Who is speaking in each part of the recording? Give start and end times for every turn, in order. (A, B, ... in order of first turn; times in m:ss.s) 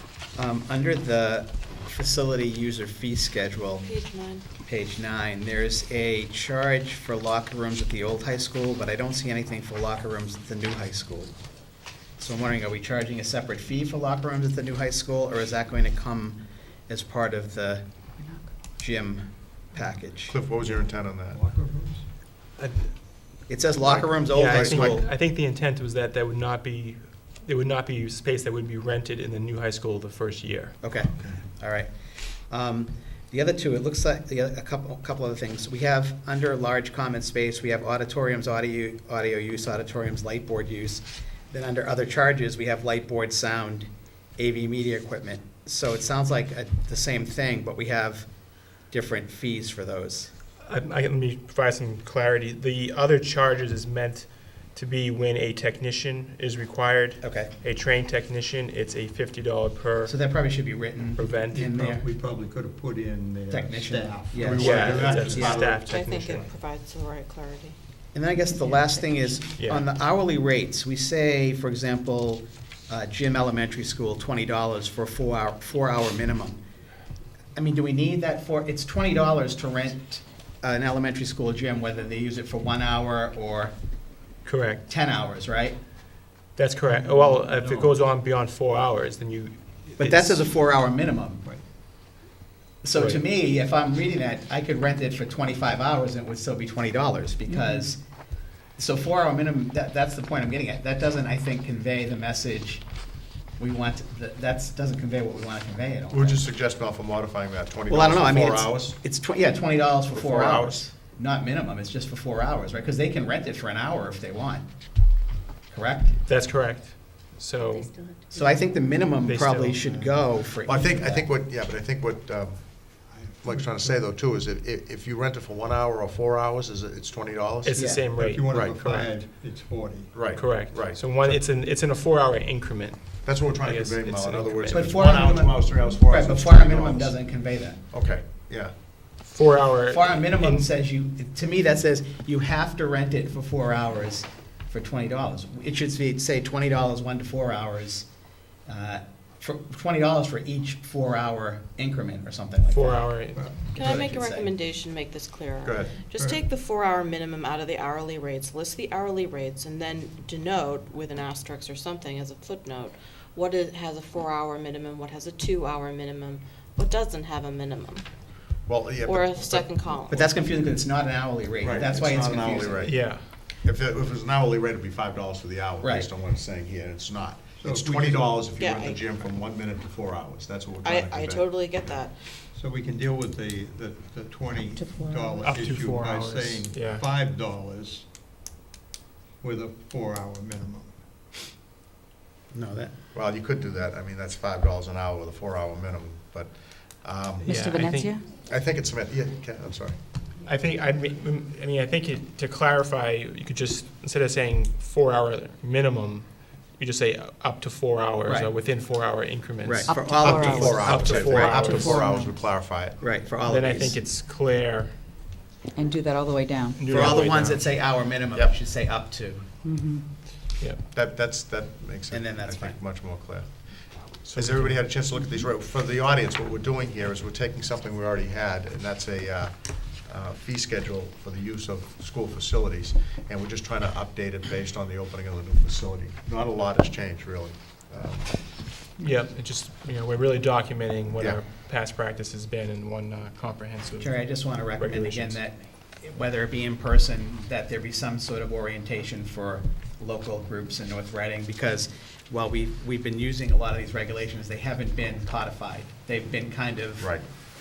0:00.3-0:03.9 A
0:03.8-0:04.4 B
0:04.6-0:11.3 A
0:12.2-0:17.8 A
0:18.8-0:20.4 A
0:20.3-0:21.4 C
0:21.3-0:22.0 D
0:22.6-0:23.5 E
0:23.5-0:25.1 A
0:23.8-0:25.0 C
0:24.2-0:30.8 E
0:30.8-0:48.3 A
0:31.2-0:31.4 D
0:48.8-0:50.3 A
0:50.6-1:00.6 E
0:57.2-0:57.5 A
1:00.1-1:02.0 A
1:01.2-1:01.6 E
1:01.5-1:05.8 D
1:03.5-1:05.6 A
1:04.4-1:05.6 C
1:04.5-1:06.5 E
1:05.4-1:07.8 B
1:08.1-1:16.6 A
1:08.5-1:09.6 F
1:09.6-1:09.9 E
1:17.5-1:23.7 A
1:24.4-1:24.8 E
1:24.9-1:25.8 A
1:26.6-1:30.5 E
1:26.8-1:28.0 D
1:30.0-1:31.4 A
1:32.8-1:38.0 A
1:32.9-1:33.2 E
1:38.7-1:42.8 A
1:43.6-1:46.5 A
1:46.1-1:49.0 C
1:47.9-1:54.7 A
1:50.1-1:50.9 C
1:55.7-1:56.2 A
1:56.2-1:57.9 E
1:57.7-1:58.5 B
1:58.3-2:01.3 A
1:59.2-1:59.8 E
1:59.8-2:00.3 D
2:00.6-2:08.0 C
2:03.0-2:04.0 D
2:07.6-2:09.1 E
2:07.7-2:08.0 A
2:08.1-2:10.2 D
2:08.5-2:08.8 C
2:10.1-2:11.4 C
2:10.3-2:15.0 E
2:13.2-2:18.7 C
2:14.7-2:17.8 A
2:19.2-2:20.6 E
2:19.9-2:28.1 A
2:28.6-2:34.5 A
2:32.7-2:33.5 E
2:33.3-2:34.0 D
2:33.7-2:48.2 B
2:35.6-2:36.0 C
2:35.8-2:36.4 D
2:48.6-2:49.7 C
2:49.0-2:50.3 B
2:50.1-2:52.9 A
2:51.6-3:02.0 C
2:52.8-2:53.3 E
2:55.8-2:56.1 A
2:57.6-2:58.5 D
2:58.6-2:59.1 B
2:59.1-2:59.4 D
3:00.8-3:02.4 B
3:02.5-3:08.0 D
3:04.7-3:05.5 F
3:05.4-3:07.0 E
3:09.4-3:11.0 D
3:12.5-3:12.9 A
3:13.1-3:17.8 C
3:17.4-3:18.2 F
3:17.4-3:18.1 E
3:18.4-3:20.0 C
3:20.4-3:32.0 E
3:28.2-3:28.5 A
3:29.6-3:32.2 A
3:29.8-3:30.9 F
3:30.2-3:33.2 C
3:33.0-3:34.0 A
3:33.4-3:35.0 E
3:35.7-3:36.8 F
3:36.7-3:37.7 E
3:36.9-3:39.6 A
3:39.6-3:40.0 F
3:40.9-3:58.6 C
3:42.1-3:42.8 A
3:44.3-3:44.8 E
3:59.0-4:05.4 E
4:01.1-4:01.4 C
4:04.0-4:17.2 A